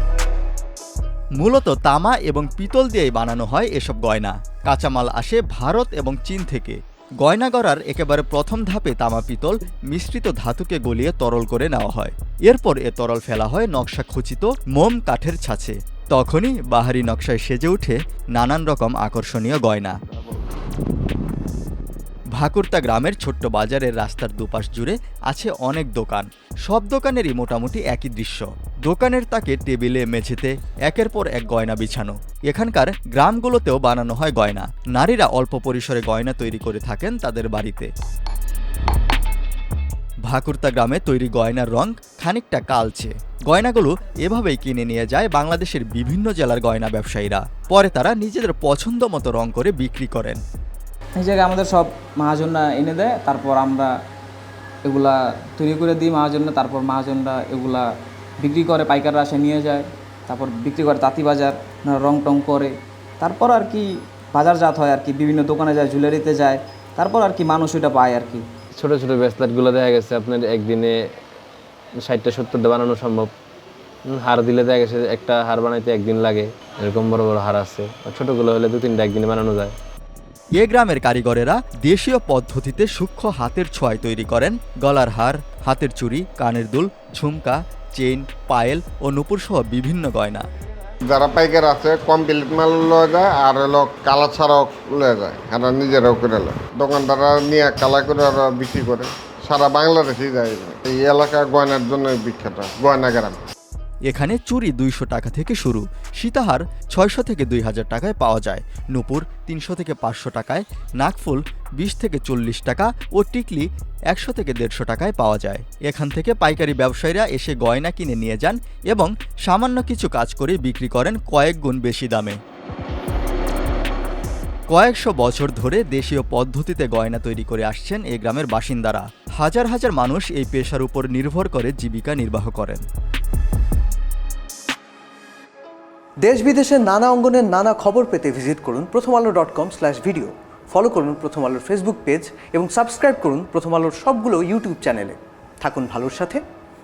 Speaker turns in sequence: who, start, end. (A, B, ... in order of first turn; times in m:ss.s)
0:01.4-0:19.9 A
0:22.3-0:37.9 A
0:40.2-0:50.4 A
0:51.2-0:53.9 B
0:54.8-0:57.9 B
0:58.4-1:08.4 B
1:08.8-1:11.0 C
1:12.0-1:13.3 C
1:14.1-1:19.7 C
1:20.5-1:30.4 A
1:31.1-1:43.4 D
1:44.1-2:02.4 A
2:04.7-2:12.8 A
2:16.2-2:26.4 E